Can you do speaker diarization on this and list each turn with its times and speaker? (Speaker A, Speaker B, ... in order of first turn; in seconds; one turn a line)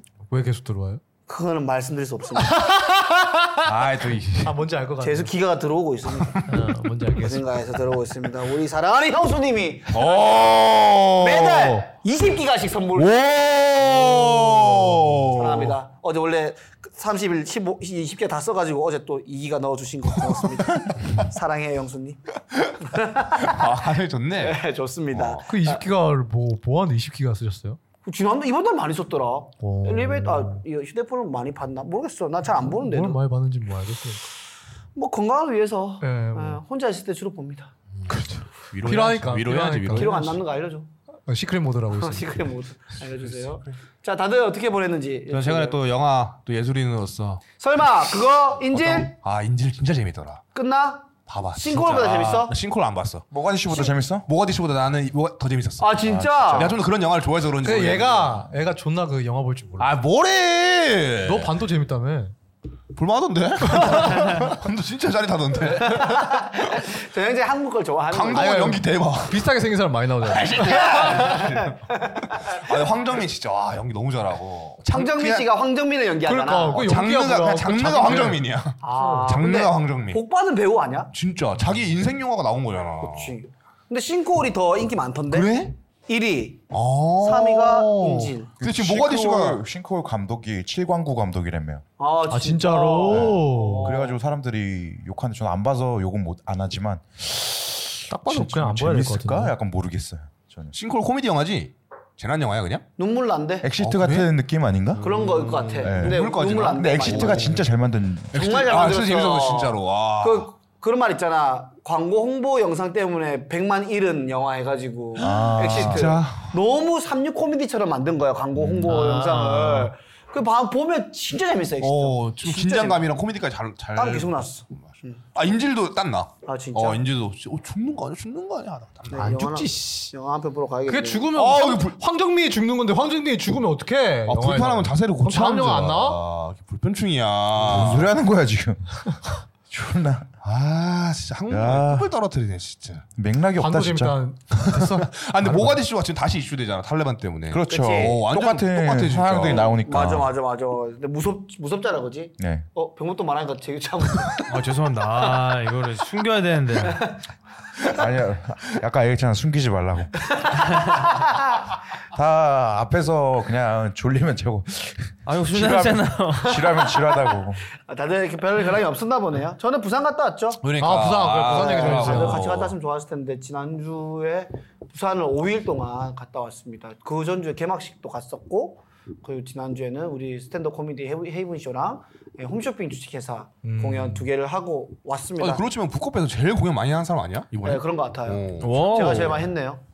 Speaker A: 0.3-1.0
Speaker B: 1.3-2.6
Speaker A: 2.4-3.7
Speaker C: 3.6-4.6
Speaker A: 4.4-5.3
Speaker B: 5.0-6.5
Speaker C: 6.2-6.5
Speaker A: 6.5-7.5
Speaker B: 7.1-10.4
Speaker C: 9.9-11.8
Speaker B: 11.2-22.2
Speaker C: 13.0-15.8
Speaker A: 14.9-15.2
Speaker B: 22.8-25.8
Speaker C: 23.4-25.4
Speaker A: 25.5-27.8
Speaker B: 28.0-33.2
Speaker A: 29.6-30.6
Speaker A: 32.5-34.3
Speaker B: 35.0-37.7
Speaker A: 36.0-36.6
Speaker A: 38.1-40.4
Speaker C: 38.1-40.4
Speaker B: 39.9-40.9
Speaker A: 41.3-42.4
Speaker B: 41.9-45.8
Speaker C: 43.2-43.5
Speaker C: 45.3-47.4
Speaker B: 47.6-49.2
Speaker C: 48.7-50.5
Speaker B: 50.5-52.5
Speaker C: 51.3-53.3
Speaker D: 53.3-54.3
Speaker C: 54.2-58.5
Speaker B: 55.8-56.8
Speaker A: 57.6-59.9
Speaker C: 59.8-61.5
Speaker A: 61.2-62.3
Speaker C: 62.9-66.3
Speaker A: 63.6-64.5
Speaker B: 65.8-68.7
Speaker C: 68.1-69.5
Speaker A: 68.3-71.5
Speaker C: 70.2-75.5
Speaker B: 70.8-72.6
Speaker B: 74.8-76.9
Speaker A: 76.2-78.4
Speaker C: 76.7-80.2
Speaker B: 78.8-81.1
Speaker A: 79.0-79.3
Speaker C: 81.1-83.4
Speaker B: 83.0-85.5
Speaker C: 85.3-85.8
Speaker B: 86.1-88.5
Speaker C: 86.7-89.6
Speaker D: 88.6-91.8
Speaker B: 92.0-94.2
Speaker A: 92.3-93.9
Speaker D: 93.1-97.4
Speaker A: 98.1-99.5
Speaker D: 98.2-100.8
Speaker C: 100.7-102.9
Speaker B: 103.0-103.7
Speaker D: 103.6-105.1
Speaker C: 103.8-104.3
Speaker C: 105.0-107.7
Speaker B: 105.0-107.6
Speaker D: 105.8-108.5
Speaker C: 108.3-110.5
Speaker B: 108.3-123.1
Speaker D: 115.2-116.2
Speaker C: 115.2-116.6
Speaker A: 118.8-119.9
Speaker C: 121.8-129.5
Speaker B: 124.0-125.2
Speaker B: 126.5-127.0
Speaker B: 129.1-131.3
Speaker A: 129.1-130.1
Speaker A: 130.9-136.2
Speaker C: 131.3-132.0
Speaker C: 134.3-138.1
Speaker D: 137.7-139.2
Speaker D: 139.7-140.3
Speaker C: 140.4-143.1
Speaker D: 141.5-142.1
Speaker D: 143.2-144.2
Speaker A: 143.6-145.8
Speaker C: 144.6-149.8
Speaker D: 147.5-150.3
Speaker B: 147.7-148.2
Speaker B: 149.4-154.6
Speaker D: 152.4-152.7
Speaker E: 154.5-157.1
Speaker D: 157.9-160.3
Speaker D: 162.1-167.7
Speaker E: 165.3-166.9
Speaker B: 166.8-167.3
Speaker B: 167.8-170.6
Speaker C: 170.6-172.8
Speaker A: 170.8-172.5
Speaker B: 171.5-185.6
Speaker A: 183.6-184.3
Speaker C: 185.4-189.4
Speaker B: 187.6-189.8
Speaker E: 188.6-189.4